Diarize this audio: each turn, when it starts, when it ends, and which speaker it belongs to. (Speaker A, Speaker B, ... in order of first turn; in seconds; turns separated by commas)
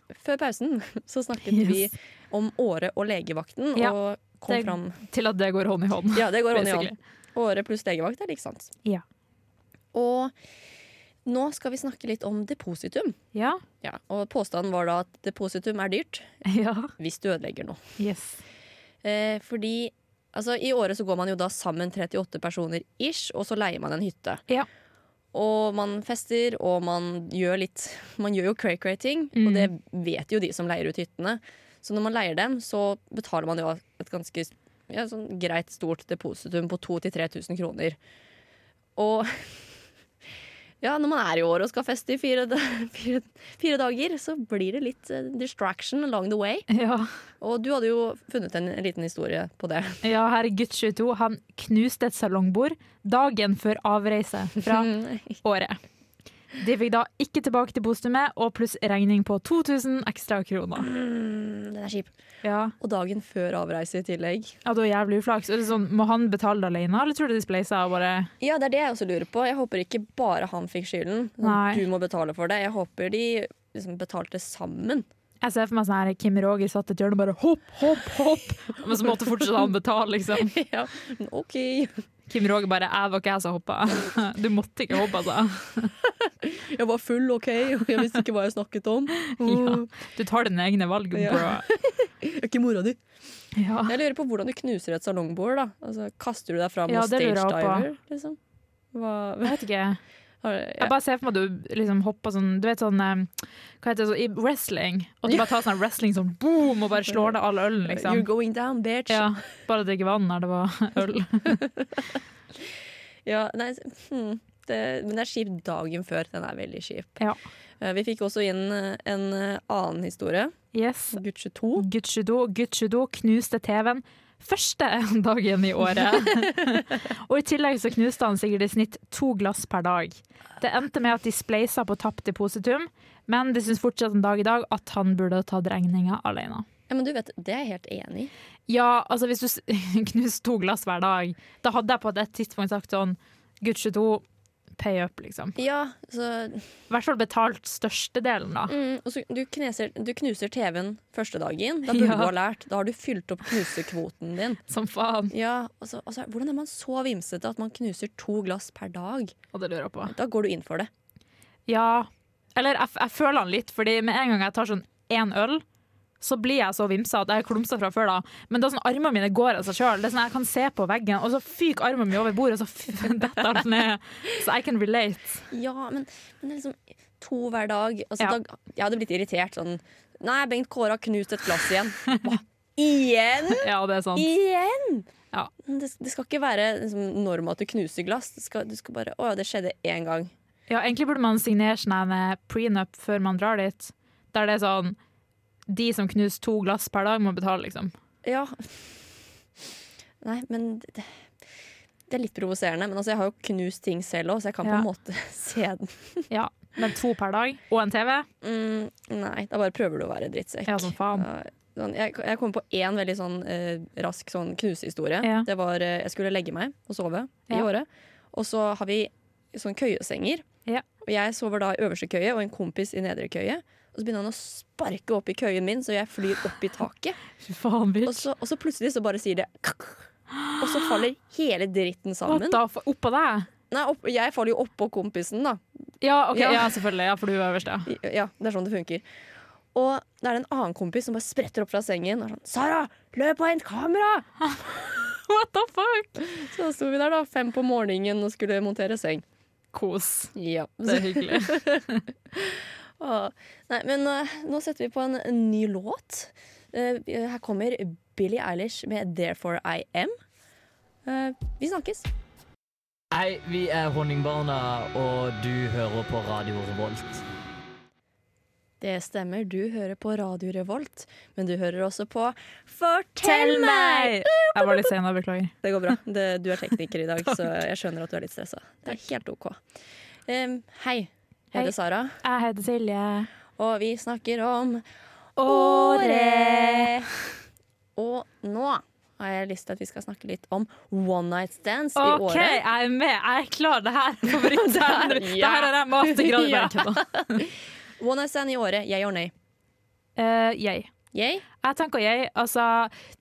Speaker A: 0.1-5.0, Speaker B: 1.5-1.8, Speaker B: 4.5-6.9, Speaker A: 6.1-8.7, Speaker A: 9.9-10.3, Speaker A: 11.2-13.2, Speaker B: 13.3-13.6, Speaker A: 13.8-16.3, Speaker B: 16.4-16.9, Speaker A: 17.0-17.8, Speaker B: 18.0-18.4, Speaker A: 19.0-24.4, Speaker A: 25.3-38.0, Speaker B: 29.4-29.7, Speaker A: 39.0-39.7, Speaker A: 40.8-46.7, Speaker B: 46.7-47.1, Speaker A: 47.4-50.0, Speaker B: 50.0-54.9, Speaker A: 54.6-55.4, Speaker B: 55.4-55.8, Speaker B: 56.6-60.9, Speaker A: 60.8-62.1, Speaker B: 62.4-62.7, Speaker A: 62.8-64.5, Speaker B: 64.6-68.3, Speaker A: 68.4-75.1, Speaker B: 71.4-71.8, Speaker B: 75.4-80.5, Speaker A: 80.4-82.0, Speaker B: 82.3-85.9, Speaker A: 86.4-89.9, Speaker B: 89.3-91.7, Speaker A: 91.1-93.0, Speaker B: 93.6-93.9, Speaker A: 93.8-98.4, Speaker B: 96.9-97.8, Speaker A: 98.9-99.6, Speaker B: 99.4-100.0, Speaker A: 100.4-100.9, Speaker B: 100.8-108.3, Speaker A: 107.8-109.3, Speaker B: 109.1-111.6, Speaker A: 111.5-112.1, Speaker A: 113.2-117.2, Speaker A: 117.8-120.5, Speaker B: 120.7-121.2, Speaker A: 121.1-121.8, Speaker B: 121.8-136.7, Speaker A: 136.9-138.3, Speaker B: 138.7-144.2, Speaker B: 144.8-145.6, Speaker A: 145.6-146.7, Speaker B: 146.9-148.7, Speaker A: 148.7-154.6, Speaker B: 151.9-152.3, Speaker B: 154.7-155.3, Speaker A: 155.3-159.3, Speaker B: 159.5-160.1, Speaker A: 160.0-160.9, Speaker B: 161.7-165.6, Speaker B: 166.2-175.4, Speaker A: 175.5-185.1, Speaker B: 183.6-184.3, Speaker A: 185.6-190.3, Speaker B: 190.7-195.0, Speaker B: 195.7-197.9, Speaker A: 198.2-199.0, Speaker A: 200.2-201.2, Speaker A: 202.1-206.3, Speaker B: 206.3-208.3, Speaker A: 208.4-220.4, Speaker B: 210.7-211.2, Speaker B: 215.2-215.5, Speaker A: 221.0-227.2, Speaker B: 227.4-228.2, Speaker A: 228.0-230.1, Speaker A: 230.6-232.6, Speaker B: 232.3-233.5, Speaker A: 233.7-235.6, Speaker B: 236.0-237.9, Speaker A: 236.3-236.7, Speaker A: 237.8-239.0, Speaker A: 239.7-244.9, Speaker B: 245.2-246.1, Speaker A: 246.2-249.2, Speaker B: 249.7-250.3, Speaker A: 250.3-260.1, Speaker B: 250.8-252.0, Speaker A: 261.1-262.1, Speaker C: 263.1-267.2, Speaker A: 268.8-274.9, Speaker B: 273.2-275.5, Speaker A: 275.6-279.6, Speaker A: 280.3-282.2, Speaker B: 281.5-283.3, Speaker A: 283.6-284.8, Speaker B: 285.4-286.9, Speaker A: 285.4-287.1, Speaker A: 287.9-292.6, Speaker B: 292.0-297.4, Speaker A: 294.3-299.3, Speaker B: 300.1-300.9, Speaker A: 301.1-301.4, Speaker B: 301.6-302.9